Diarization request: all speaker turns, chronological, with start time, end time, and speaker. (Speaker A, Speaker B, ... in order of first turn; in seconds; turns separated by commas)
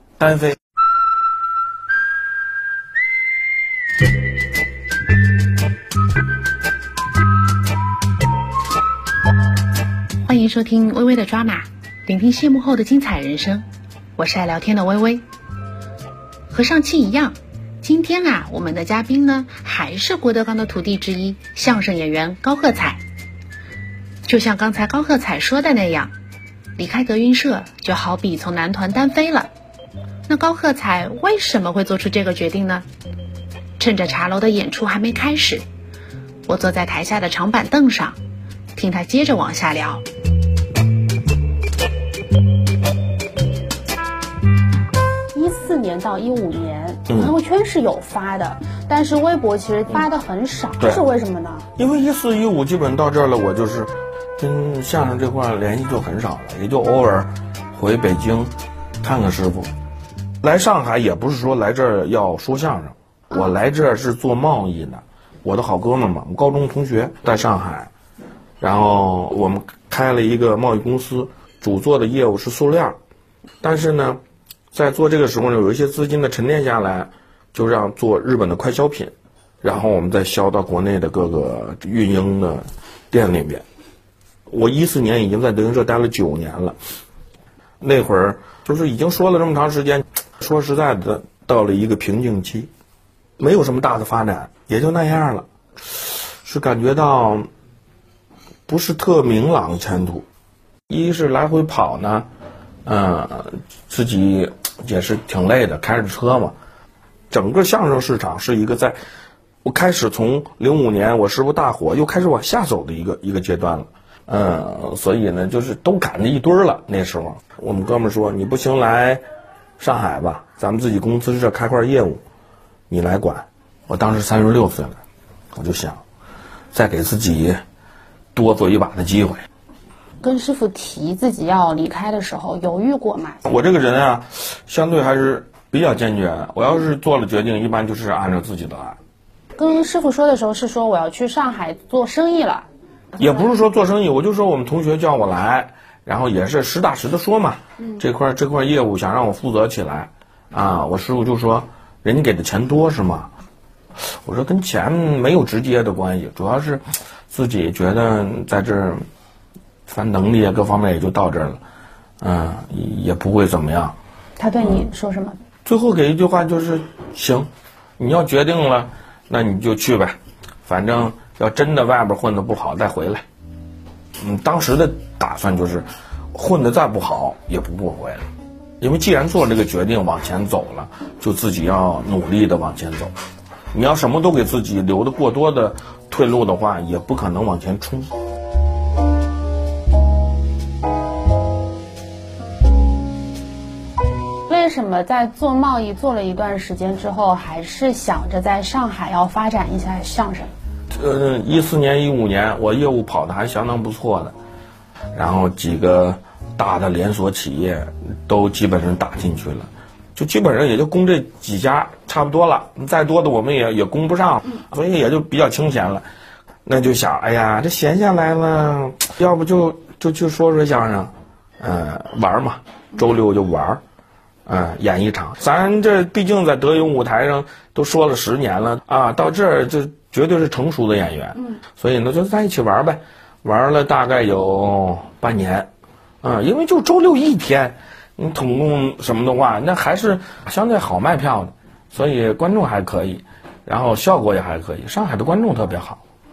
Speaker A: 0.2-0.6, Speaker B: 10.2-13.6, Speaker B: 14.2-15.2, Speaker B: 16.5-23.0, Speaker B: 24.2-26.1, Speaker B: 26.8-29.5, Speaker B: 30.3-32.9, Speaker B: 33.8-35.6, Speaker B: 36.5-38.2, Speaker B: 38.7-40.0, Speaker C: 45.3-51.7, Speaker A: 47.1-47.3, Speaker A: 51.8-59.7, Speaker A: 60.4-67.9, Speaker A: 68.6-72.9, Speaker A: 73.6-74.2, Speaker A: 74.7-83.6, Speaker A: 84.5-86.8, Speaker A: 87.8-92.7, Speaker A: 93.4-97.5, Speaker A: 98.7-100.2, Speaker A: 100.9-102.3, Speaker A: 102.8-106.5, Speaker A: 107.3-109.0, Speaker A: 109.6-119.2, Speaker A: 119.8-122.2, Speaker A: 122.9-125.0, Speaker A: 125.5-126.0, Speaker A: 126.7-127.6, Speaker A: 128.3-129.4, Speaker C: 130.2-133.4, Speaker A: 133.4-139.0, Speaker C: 139.6-142.7, Speaker A: 143.2-153.3, Speaker A: 154.2-159.0, Speaker A: 159.9-161.6, Speaker A: 162.2-163.9, Speaker C: 164.4-165.3, Speaker A: 165.6-173.2, Speaker A: 174.2-178.2, Speaker A: 178.8-183.1, Speaker A: 183.7-188.1, Speaker C: 194.5-200.5, Speaker A: 200.9-204.3, Speaker A: 205.1-216.0, Speaker A: 216.6-223.8, Speaker A: 224.4-235.7, Speaker A: 236.2-246.0